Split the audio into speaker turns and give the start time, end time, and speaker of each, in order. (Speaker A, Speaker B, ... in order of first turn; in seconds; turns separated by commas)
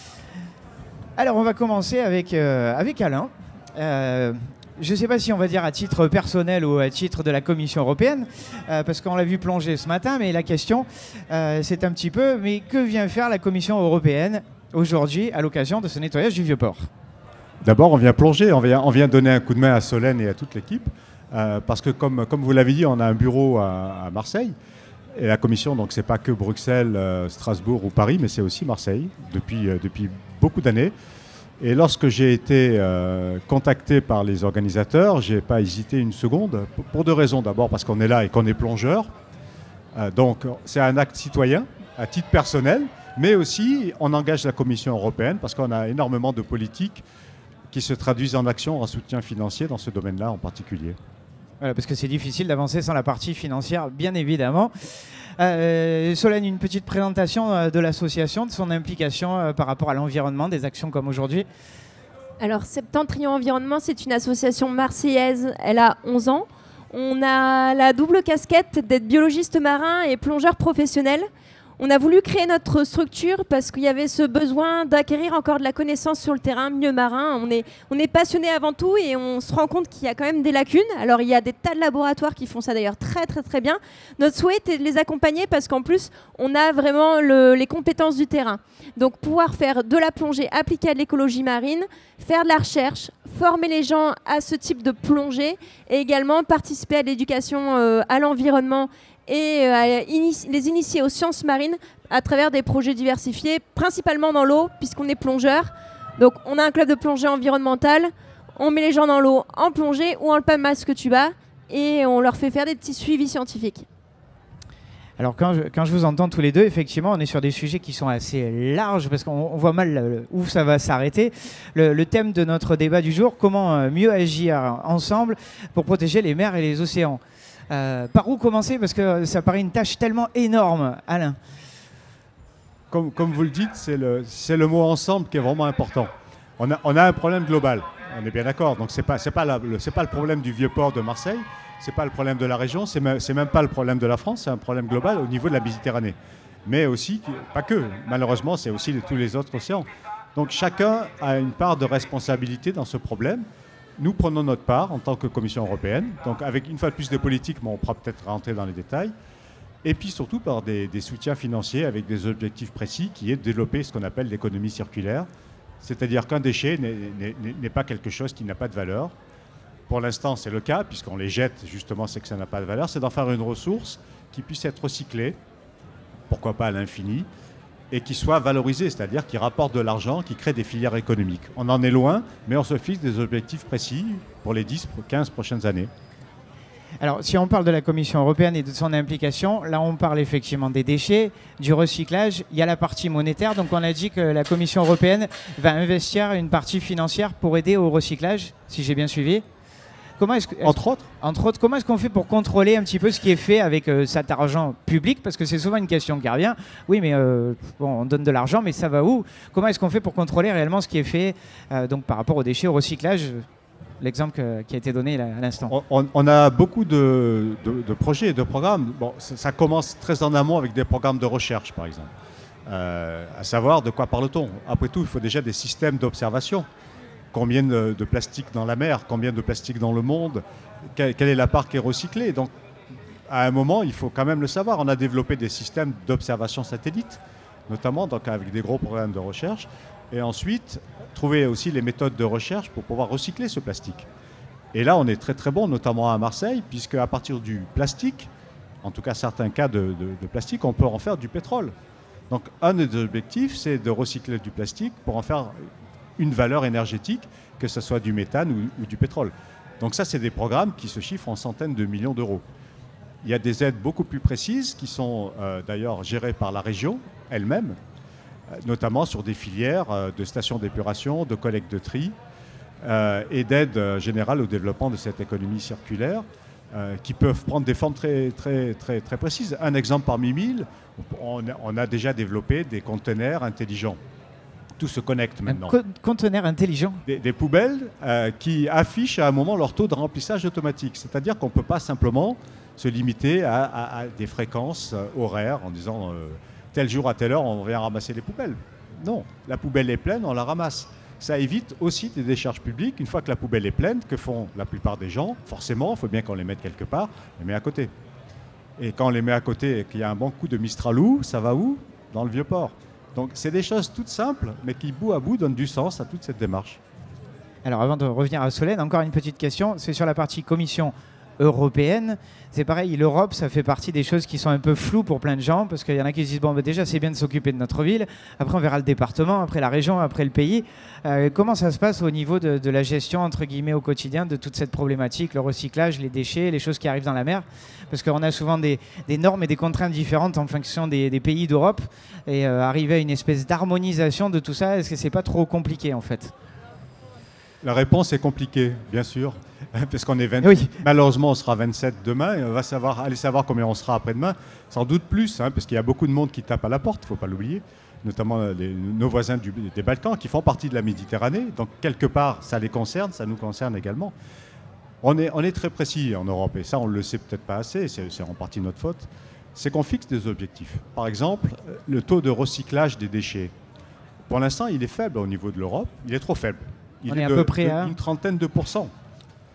Speaker A: 1.2-16.9, Speaker B: 17.6-24.5, Speaker B: 25.1-30.9, Speaker B: 31.6-39.1, Speaker B: 39.9-47.0, Speaker B: 47.7-51.0, Speaker A: 51.6-54.7, Speaker A: 55.4-61.5, Speaker C: 62.4-71.3, Speaker C: 71.8-113.8, Speaker A: 115.2-131.4, Speaker B: 132.9-153.4, Speaker B: 154.0-159.1, Speaker B: 159.8-165.3, Speaker B: 165.8-169.1, Speaker B: 169.9-175.4, Speaker B: 176.3-177.3, Speaker B: 177.9-185.9, Speaker A: 187.0-199.4, Speaker A: 200.2-213.4, Speaker B: 200.6-201.1, Speaker A: 214.0-215.7, Speaker B: 215.7-222.1, Speaker B: 222.7-226.7, Speaker B: 227.3-232.5, Speaker B: 233.3-244.1, Speaker B: 244.7-248.3, Speaker B: 248.8-251.7, Speaker B: 252.3-262.4, Speaker B: 263.2-267.8, Speaker B: 268.5-272.2, Speaker B: 272.8-284.0, Speaker B: 284.8-285.7, Speaker A: 285.5-287.0, Speaker B: 287.1-307.9, Speaker B: 308.8-316.8, Speaker A: 317.6-346.3, Speaker B: 347.6-364.1, Speaker A: 350.4-350.7, Speaker B: 365.0-373.5, Speaker B: 374.3-378.9, Speaker A: 377.1-377.9